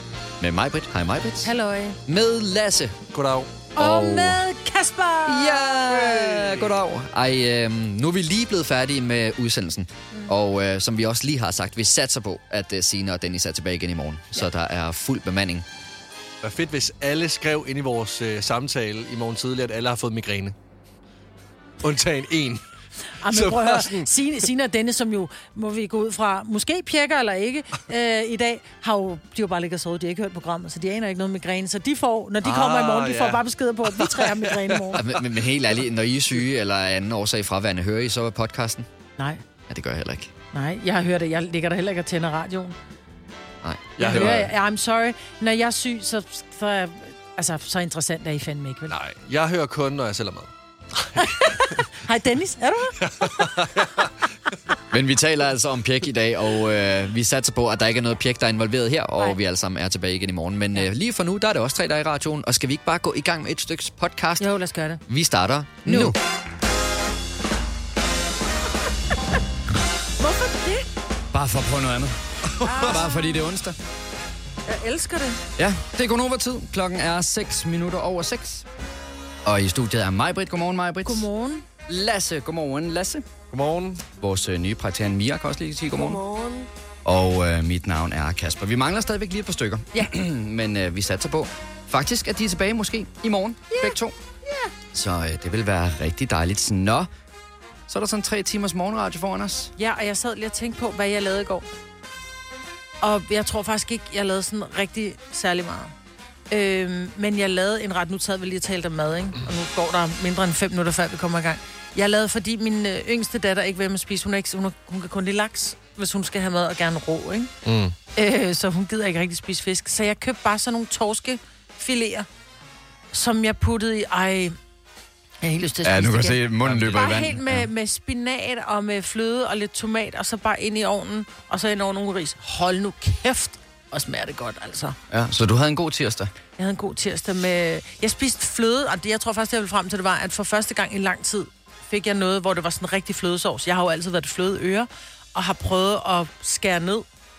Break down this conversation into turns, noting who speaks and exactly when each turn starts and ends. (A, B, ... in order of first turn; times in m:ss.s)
0:00.4-0:01.5 A
0:01.4-0:02.0 B
0:02.1-0:03.0 A
0:03.1-0:03.5 C
0:03.8-0:04.4 A
0:03.8-0:05.8 B
0:05.3-0:15.6 A
0:05.9-0:06.7 C
0:16.4-0:20.6 C
0:21.8-0:22.6 C
0:23.2-0:35.0 B
0:23.2-0:24.1 C
0:32.4-0:35.2 C
0:35.0-0:38.9 A
0:39.7-0:40.3 A
0:40.5-0:42.8 B
0:43.6-0:44.5 A
0:44.0-0:44.5 C
0:44.0-0:48.9 B
0:48.9-0:50.5 C
0:51.2-0:53.4 B
0:53.0-0:54.1 C
0:54.9-1:04.5 A
1:04.4-1:05.0 B
1:05.1-1:06.2 A
1:05.8-1:06.2 B
1:10.2-1:10.9 B
1:11.3-1:12.2 A
1:12.6-1:13.4 B
1:12.7-1:12.9 C
1:12.8-1:13.8 A
1:14.7-1:15.4 B
1:15.6-1:18.7 A
1:19.4-1:21.3 A
1:21.0-1:21.6 B
1:21.9-1:23.3 A
1:23.5-1:24.0 C
1:24.2-1:26.2 A
1:26.1-1:26.6 B
1:27.0-1:34.1 A
1:33.7-1:34.7 B
1:34.9-1:37.1 A
1:37.9-1:39.7 A
1:39.8-1:41.7 B
1:43.0-1:45.9 B
1:46.5-1:57.5 B
1:57.6-1:58.0 C
1:58.2-2:02.3 B
2:03.1-2:04.6 B
2:05.4-2:15.0 B
2:05.8-2:07.7 A
2:06.6-2:07.0 C
2:15.1-2:16.3 A
2:16.6-2:27.1 B